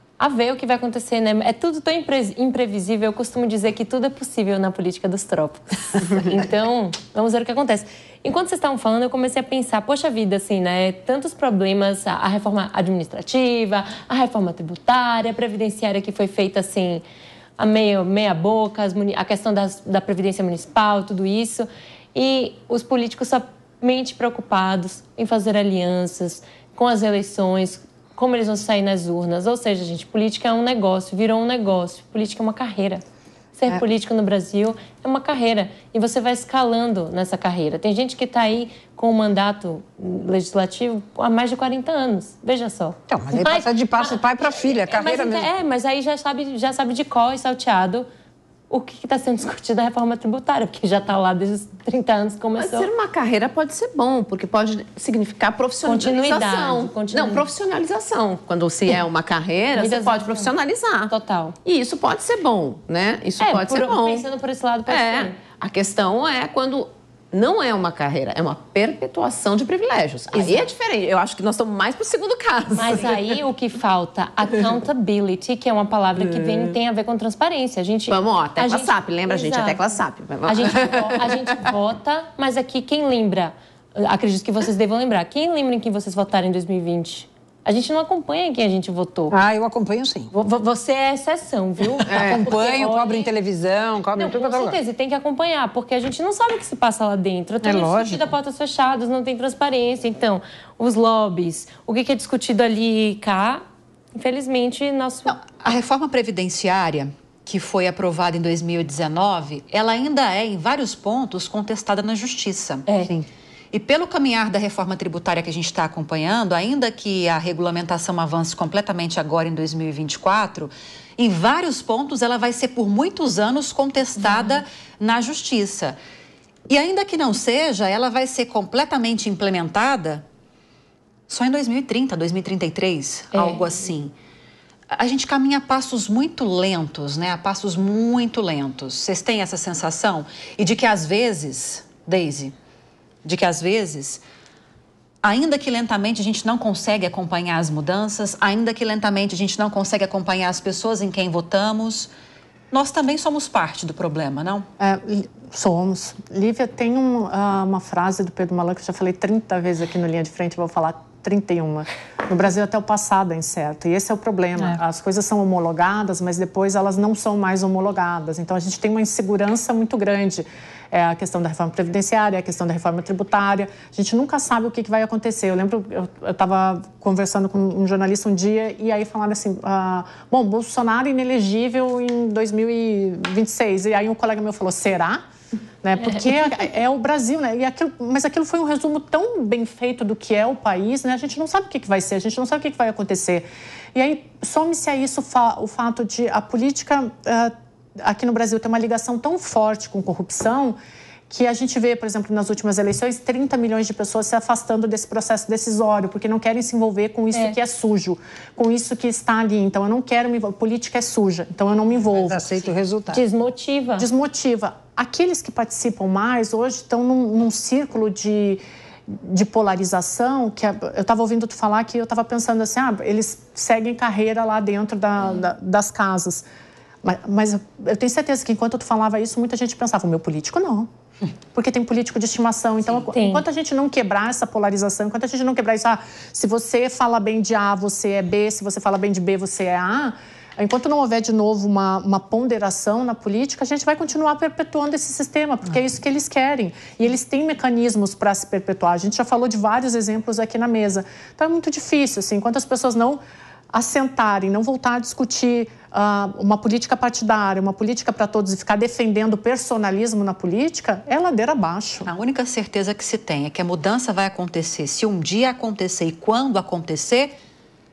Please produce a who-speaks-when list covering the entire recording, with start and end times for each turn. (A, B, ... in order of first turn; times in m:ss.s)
0:00.2-0:17.0 A
0:17.6-0:33.0 A
0:33.6-0:48.1 A
0:43.1-0:45.5 B
0:48.7-0:52.9 A
0:52.6-1:01.1 C
0:55.8-0:57.5 A
0:59.8-1:00.5 A
1:01.1-1:01.6 A
1:01.6-1:04.3 C
1:03.4-1:05.4 A
1:04.8-1:13.4 C
1:10.3-1:10.7 A
1:12.8-1:19.8 A
1:16.2-1:16.7 C
1:18.1-1:21.7 C
1:20.4-1:29.4 A
1:29.3-1:30.3 B
1:30.3-1:33.3 A
1:32.0-1:34.8 B
1:32.1-1:32.4 C
1:34.2-1:43.6 A
1:37.6-1:38.3 B
1:44.1-1:45.4 A
1:45.3-2:06.0 D
1:52.9-1:53.1 A
2:06.7-2:10.2 D
2:11.3-2:14.1 D
2:13.3-2:13.7 A
2:14.9-2:22.5 D
2:23.2-2:24.2 D
2:25.2-2:32.1 D
2:32.7-2:34.6 D
2:34.8-3:05.2 E
3:05.8-3:20.8 E
3:21.3-3:32.4 E
3:32.2-3:33.2 B
3:33.1-3:34.1 A
3:34.0-3:46.4 E
3:47.0-3:50.9 E
3:51.5-4:13.2 E
3:53.1-3:53.4 A
4:13.7-4:22.1 E
4:22.0-4:27.3 D